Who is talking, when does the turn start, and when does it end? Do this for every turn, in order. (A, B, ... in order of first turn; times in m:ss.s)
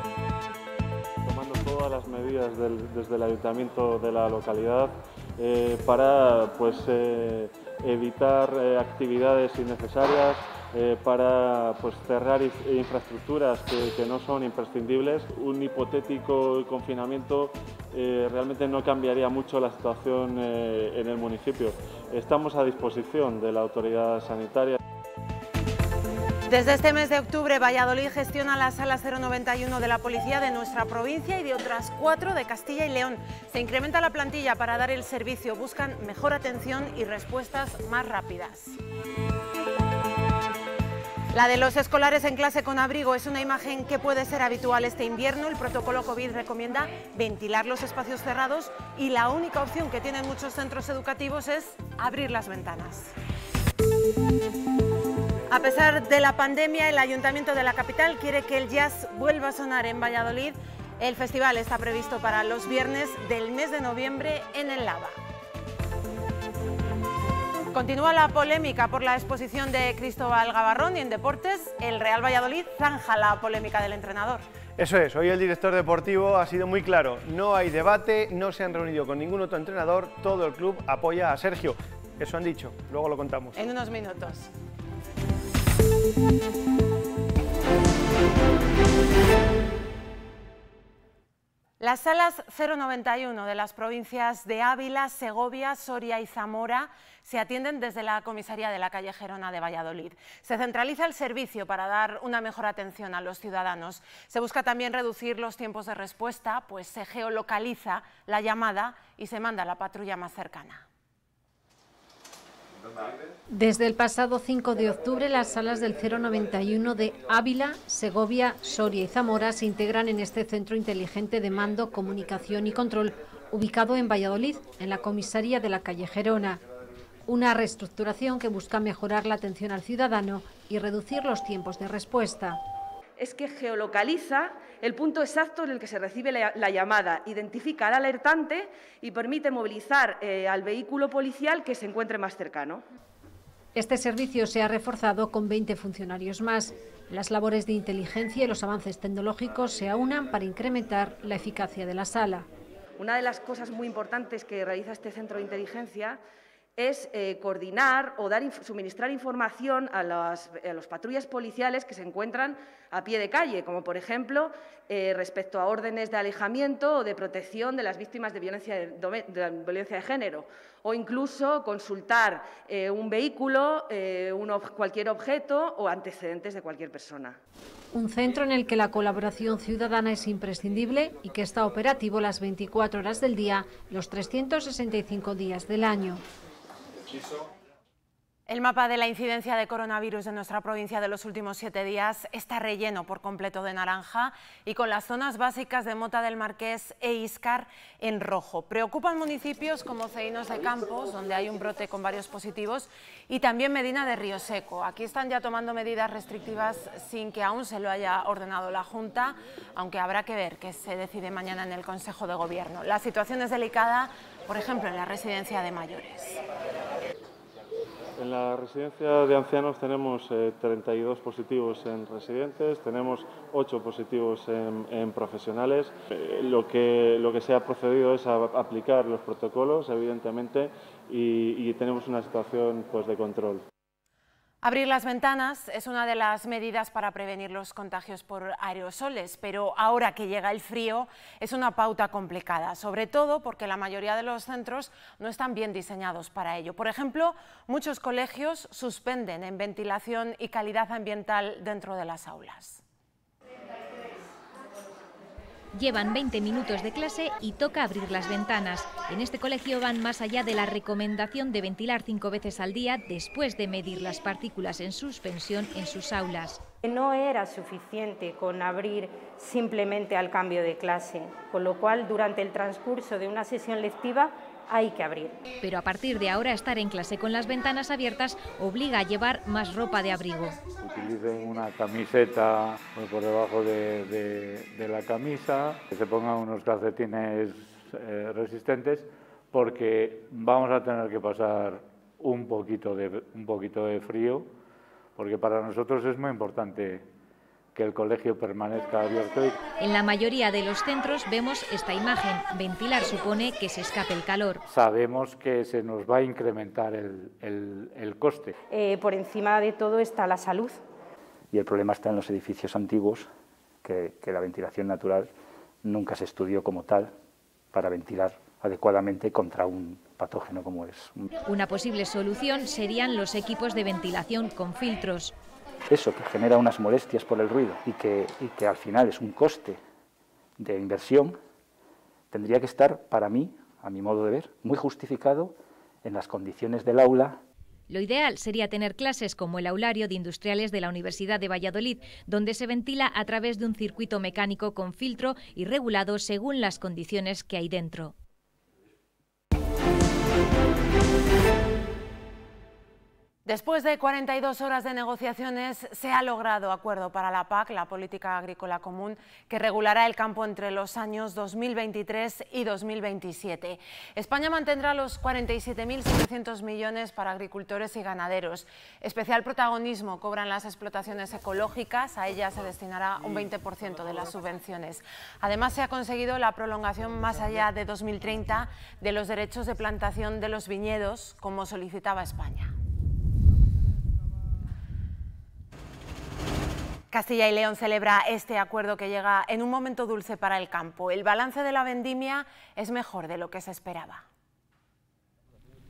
0:01.2-0:24.8 A
0:26.5-0:38.8 B
0:41.3-0:53.1 B
0:55.5-1:05.2 B
1:07.7-1:14.4 B
1:14.8-1:23.6 C
1:23.5-1:24.5 B
1:31.8-1:50.8 B
1:53.5-2:06.6 D
2:07.3-2:12.6 D
2:13.2-2:22.8 E
2:23.7-2:32.5 D
2:33.0-2:36.2 E
2:36.8-2:57.4 E
2:57.9-3:06.2 D
3:08.5-3:36.4 B
3:38.2-3:53.6 A
3:54.6-4:12.8 B
4:15.7-4:26.6 F
4:26.8-4:35.3 G
4:35.6-4:40.6 F
4:40.8-4:54.5 H
4:55.2-4:57.0 H
4:57.7-4:59.6 H
4:59.8-5:04.6 F
5:04.7-5:08.5 H
5:08.7-5:10.8 G
5:11.5-5:13.3 I
5:13.8-5:15.3 I
5:15.8-5:17.1 I
5:17.7-5:21.3 I
5:21.4-5:25.3 F
5:25.9-5:29.8 I
5:30.6-5:31.4 I
5:32.3-5:37.4 I
5:37.9-5:48.1 F
5:53.4-6:22.7 B
6:27.1-6:34.2 B